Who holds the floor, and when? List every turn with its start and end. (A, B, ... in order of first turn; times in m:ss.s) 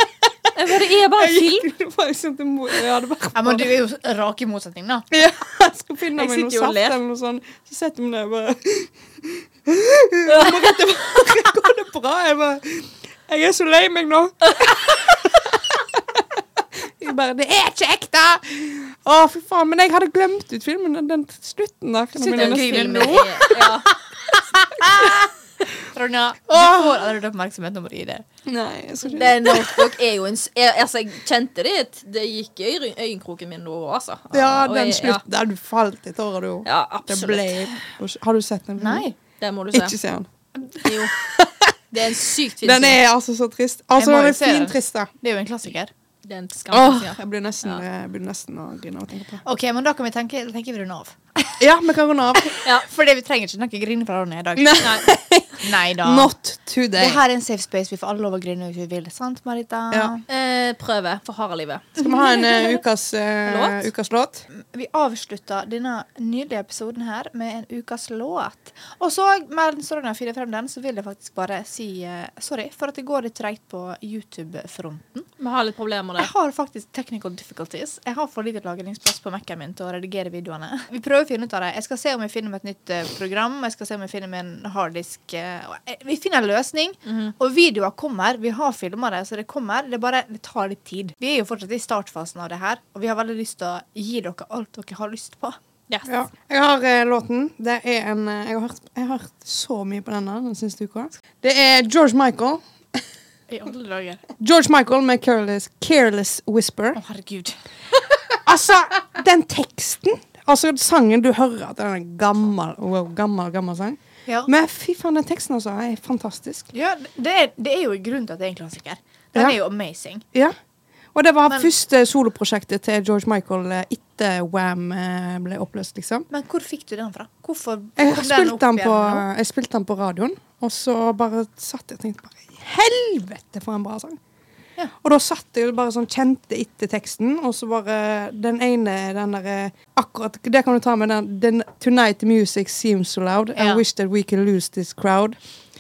0:00.5-0:01.7 A
0:01.1-0:03.7 B
0:03.3-0:05.0 C
0:05.1-0:23.7 B
0:06.2-0:07.0 A
0:10.3-0:10.7 A
0:22.2-0:23.5 C
0:22.3-0:23.9 A
0:24.5-0:25.3 C
0:25.9-0:28.2 C
0:26.5-0:27.0 B
0:28.4-0:30.0 B
0:29.0-0:35.2 A
0:34.3-0:39.0 B
0:36.6-0:37.8 A
0:38.8-0:39.1 C
0:39.4-0:39.9 A
0:39.7-0:40.3 B
0:40.8-0:41.3 A
0:40.8-0:42.0 B
0:41.9-0:43.0 A
0:42.6-0:45.1 B
0:44.0-0:45.9 C
0:46.2-0:47.8 A
0:46.7-0:49.4 B
0:49.4-0:51.6 C
0:51.6-0:52.6 B
0:52.6-0:54.8 C
0:54.6-0:57.2 B
0:55.6-0:56.3 C
0:56.9-1:00.2 C
1:00.3-1:01.9 A
1:02.0-1:04.4 B
1:02.0-1:02.7 C
1:03.4-1:03.8 A
1:04.5-1:15.3 C
1:15.4-1:16.3 A
1:16.2-1:35.6 C
1:27.0-1:27.3 A
1:36.0-1:43.0 B
1:43.5-1:44.2 C
1:44.4-1:47.0 B
1:46.9-1:47.6 C
1:48.4-1:56.7 B
1:56.7-2:00.2 C
2:01.1-2:06.3 B
2:06.3-2:09.2 C
2:08.0-2:14.2 B
2:15.0-2:25.4 B
2:23.5-2:23.8 C